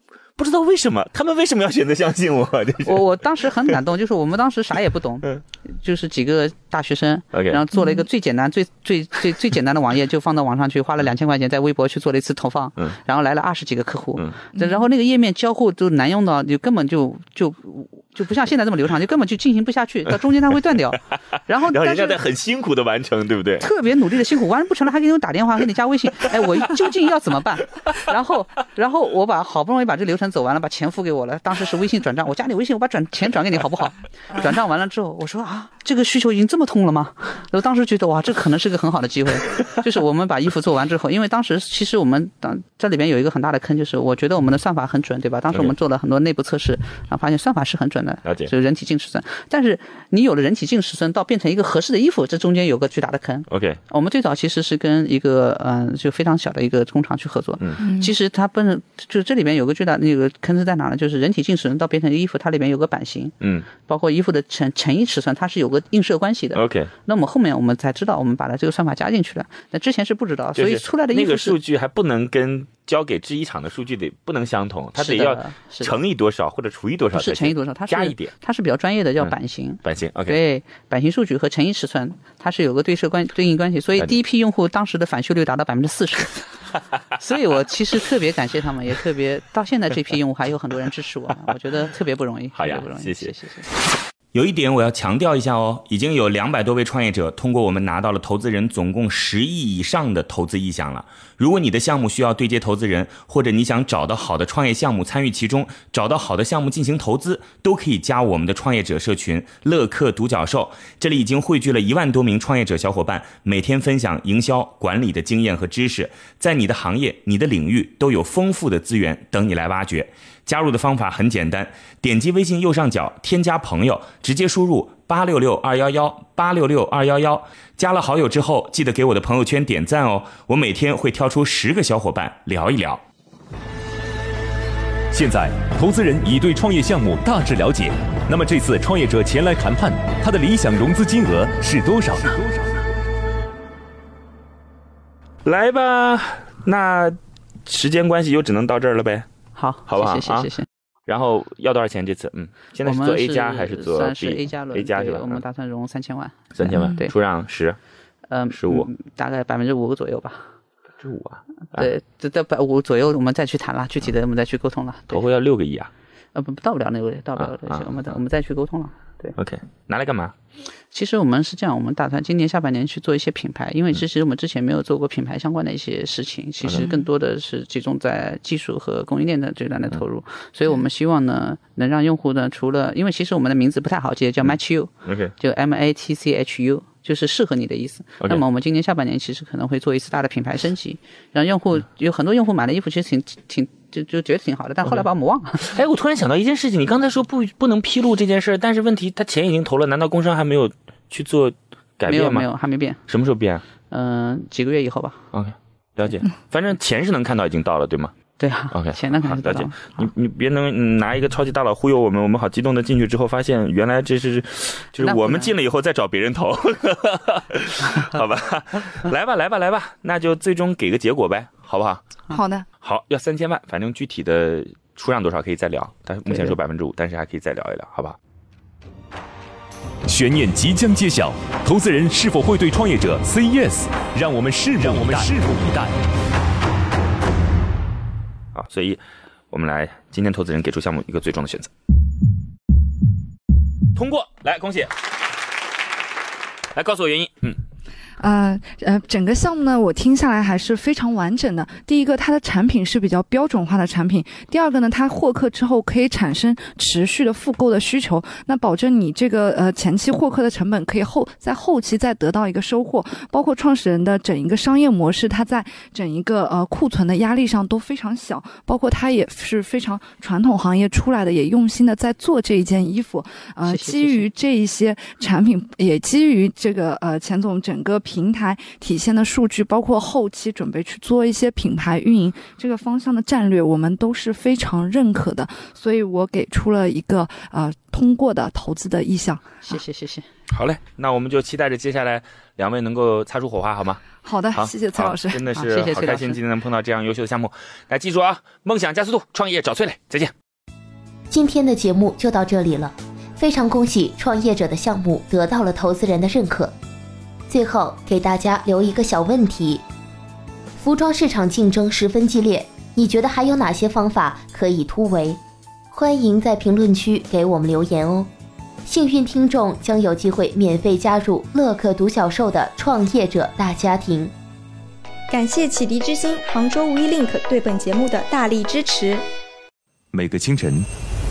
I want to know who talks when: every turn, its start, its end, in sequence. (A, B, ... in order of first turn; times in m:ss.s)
0:00.4-0:03.2 A
0:02.9-0:22.2 B
0:07.3-0:07.6 A
0:07.7-0:08.0 C
0:14.6-0:14.8 C
0:21.7-0:23.7 A
0:23.6-1:11.6 B
0:48.2-0:48.5 A
0:53.5-0:53.8 A
0:57.8-0:58.1 C
1:03.4-1:03.7 A
1:06.6-1:06.9 A
1:10.6-1:18.3 A
1:15.0-1:16.0 B
1:17.1-1:26.4 B
1:19.8-1:20.4 A
1:27.2-1:33.7 B
1:32.5-1:33.3 A
1:34.3-2:13.0 A
2:15.1-2:22.6 D
2:25.4-2:29.3 A
2:29.6-2:30.6 B
2:29.9-2:30.5 A
2:31.1-2:35.4 A
2:32.8-2:37.1 B
2:36.6-2:37.8 A
2:38.3-2:40.5 B
2:38.5-2:38.9 A
2:41.0-2:41.9 A
2:41.7-2:45.2 B
2:45.1-2:45.9 A
2:46.4-2:49.4 B
2:47.4-2:48.1 A
2:49.4-2:50.4 A
2:50.9-3:15.7 B
3:04.4-3:05.3 A
3:15.6-3:22.5 A
3:22.1-3:23.0 B
3:23.1-3:23.6 A
3:23.9-3:25.2 B
3:25.3-3:28.1 A
3:28.4-3:29.8 B
3:28.7-3:42.0 A
3:35.0-3:35.5 B
3:42.3-3:42.7 C
3:42.8-3:48.2 A
3:50.1-3:55.9 D
3:54.8-3:55.3 A
3:58.6-4:01.7 A
4:03.9-4:05.0 A
4:06.7-4:07.6 A
4:08.2-4:49.5 C
4:33.7-4:34.3 B
4:49.7-4:50.2 B
4:50.5-4:54.0 A
4:54.2-4:55.4 C
4:54.5-5:00.3 A
4:55.5-4:56.4 B
5:01.3-5:06.7 E
5:07.5-5:09.8 E
5:10.8-5:15.4 E
5:15.9-5:18.3 E
5:18.9-5:24.3 E
5:25.3-5:29.3 F
5:30.1-5:30.9 D